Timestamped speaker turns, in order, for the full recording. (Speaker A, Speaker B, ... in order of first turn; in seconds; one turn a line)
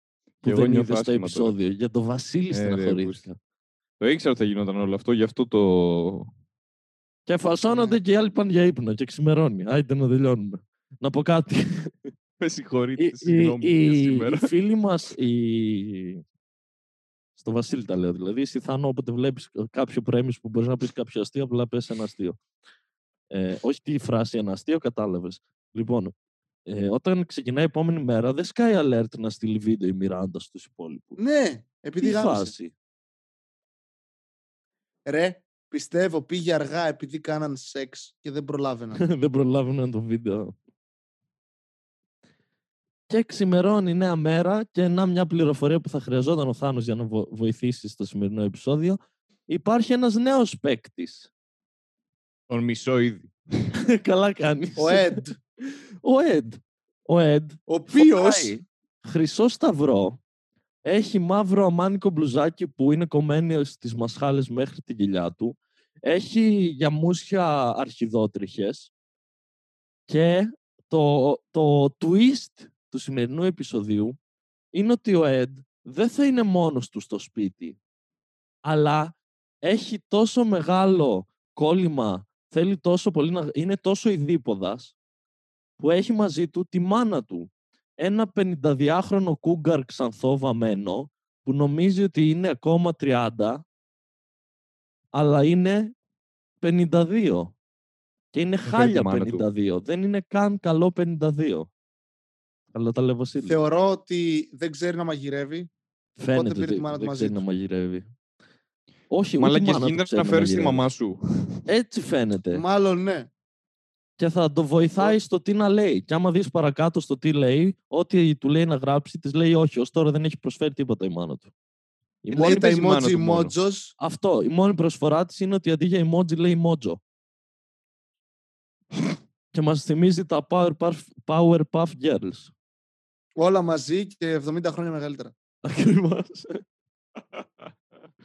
Speaker A: 0.4-1.5
Speaker B: 0.4-3.4
Speaker A: 2.5-3.2
Speaker A: 4.0-6.3
Speaker B: 7.3-12.1
Speaker C: 7.7-8.0
Speaker A: 12.4-14.5
Speaker B: 13.0-16.2
Speaker B: 17.4-22.4
Speaker B: 23.3-26.1
Speaker B: 26.6-31.2
Speaker C: 31.2-32.5
Speaker B: 32.0-32.7
Speaker C: 35.0-39.0
Speaker B: 39.0-40.6
Speaker B: 43.1-51.3
Speaker A: 52.5-53.7
Speaker B: 53.8-60.2
Speaker C: 54.8-55.4
Speaker C: 57.7-58.6
Speaker B: 60.9-68.9
Speaker B: 70.1-74.2
Speaker B: 74.7-77.8
Speaker B: 78.6-85.0
Speaker B: 85.8-93.6
Speaker B: 95.1-96.0
Speaker B: 96.6-97.5
Speaker B: 98.3-101.7
Speaker A: 98.6-99.5
Speaker B: 102.7-103.6
Speaker C: 103.4-105.7
Speaker B: 106.2-108.1
Speaker C: 106.3-107.4
Speaker B: 109.1-110.9
Speaker A: 109.4-111.6
Speaker B: 111.7-112.6
Speaker C: 112.5-113.3
Speaker B: 114.2-121.5
Speaker B: 122.2-122.6
Speaker A: 122.3-123.5
Speaker C: 122.3-123.9
Speaker B: 124.0-127.0
Speaker B: 129.5-132.5
Speaker C: 133.4-135.3
Speaker B: 135.6-136.6
Speaker A: 137.3-137.7